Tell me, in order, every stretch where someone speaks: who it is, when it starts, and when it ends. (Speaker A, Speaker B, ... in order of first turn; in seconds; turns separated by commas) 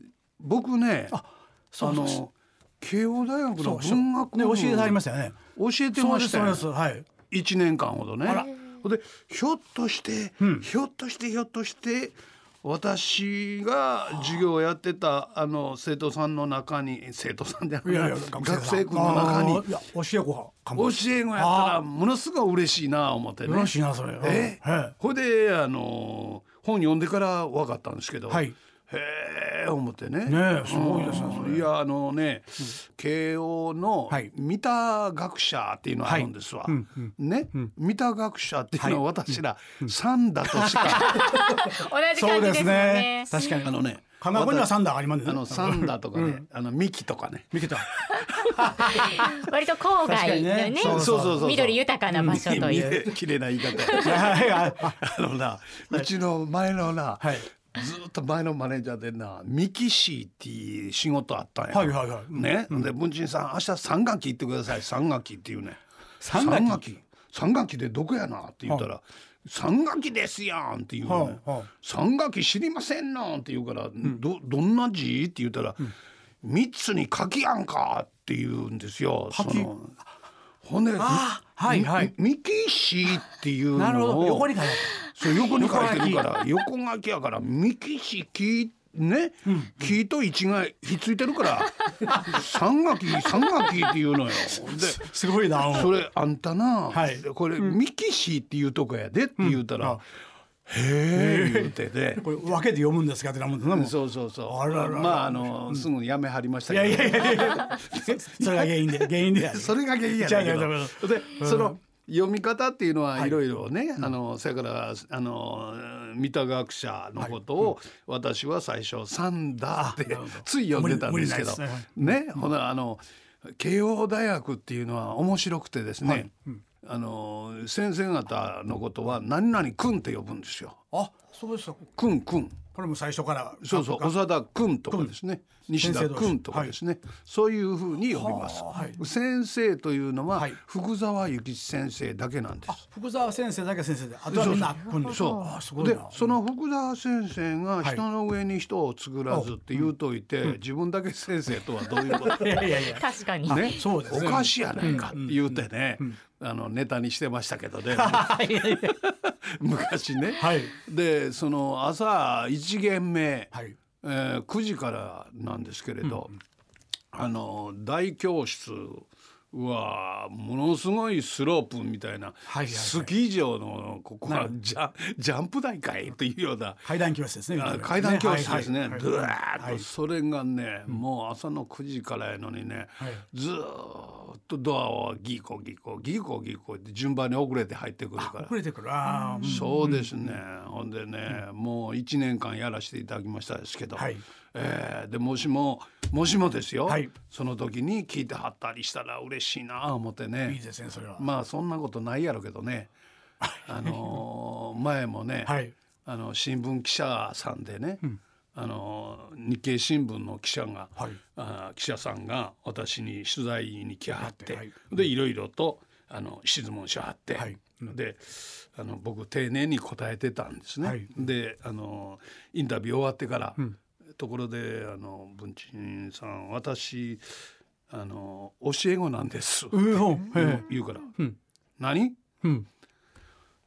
Speaker A: 0.4-1.2, Speaker B: 1.1-2.2, Speaker A: 1.8-5.0, Speaker B: 3.6-5.4, Speaker A: 5.5-6.7, Speaker B: 5.9-7.1, Speaker A: 7.3-19.7, Speaker B: 8.2-8.5, Speaker B: 10.4-10.7, Speaker B: 14.1-14.4, Speaker B: 17.8-21.8, Speaker A: 20.7-41.2, Speaker B: 23.4-24.9, Speaker B: 28.3-28.6, Speaker B: 30.2-31.7, Speaker B: 36.0-37.7, Speaker B: 38.8-39.9, Speaker B: 40.4-41.4, Speaker C: 40.9-43.5, Speaker B: 42.1-46.4, Speaker A: 43.6-48.5, Speaker B: 47.5-47.9, Speaker B: 48.4-49.2, Speaker C: 48.9-53.0, Speaker B: 50.0-51.4, Speaker A: 50.8-65.8, Speaker B: 52.1-53.0, Speaker C: 53.7-54.2, Speaker B: 54.0-55.0, Speaker B: 57.2-57.5, Speaker B: 61.7-62.9, Speaker B: 66.2-66.9, Speaker A: 66.3-80.0, Speaker B: 71.0-71.7, Speaker B: 79.3-79.7, Speaker A: 80.6-100.0, Speaker B: 81.0-82.1, Speaker B: 83.7-86.3, Speaker B: 89.5-89.8, Speaker B: 92.1-92.3, Speaker B: 94.7-95.9, Speaker B: 96.9-97.8, Speaker B: 99.4-100.0, Speaker A: 100.7-102.3, Speaker B: 101.1-105.9, Speaker A: 103.7-126.3, Speaker B: 106.7-111.8, Speaker B: 113.1-113.4, Speaker B: 117.2-117.7, Speaker B: 119.7-122.2, Speaker B: 126.0-126.6, Speaker A: 126.8-130.8, Speaker B: 130.9-131.9, Speaker A: 131.9-132.6, Speaker B: 132.7-134.2, Speaker A: 133.6-142.8, Speaker B: 134.9-135.1, Speaker B: 135.7-136.7, Speaker B: 138.1-139.0, Speaker B: 142.7-146.3, Speaker A: 144.3-152.9, Speaker C: 145.0-145.5, Speaker B: 149.3-149.9, Speaker B: 152.1-156.1, Speaker C: 153.0-153.8, Speaker A: 153.5-166.3, Speaker B: 157.9-158.9, Speaker B: 160.4-160.8, Speaker A: 167.1-176.9, Speaker B: 172.5-173.1, Speaker B: 174.2-174.5, Speaker B: 176.8-179.9, Speaker A: 177.5-188.6, Speaker B: 188.2-190.3, Speaker A: 189.4-200.6, Speaker B: 193.9-194.2, Speaker B: 196.8-197.1, Speaker B: 200.4-201.3, Speaker A: 201.2-202.9, Speaker B: 203.4-204.2, Speaker A: 203.7-223.6, Speaker B: 205.4-205.7, Speaker B: 214.2-214.9, Speaker B: 217.3-217.9, Speaker B: 220.8-221.1, Speaker A: 224.2-227.2, Speaker A: 227.9-231.2, Speaker B: 229.7-230.7, Speaker A: 231.8-232.2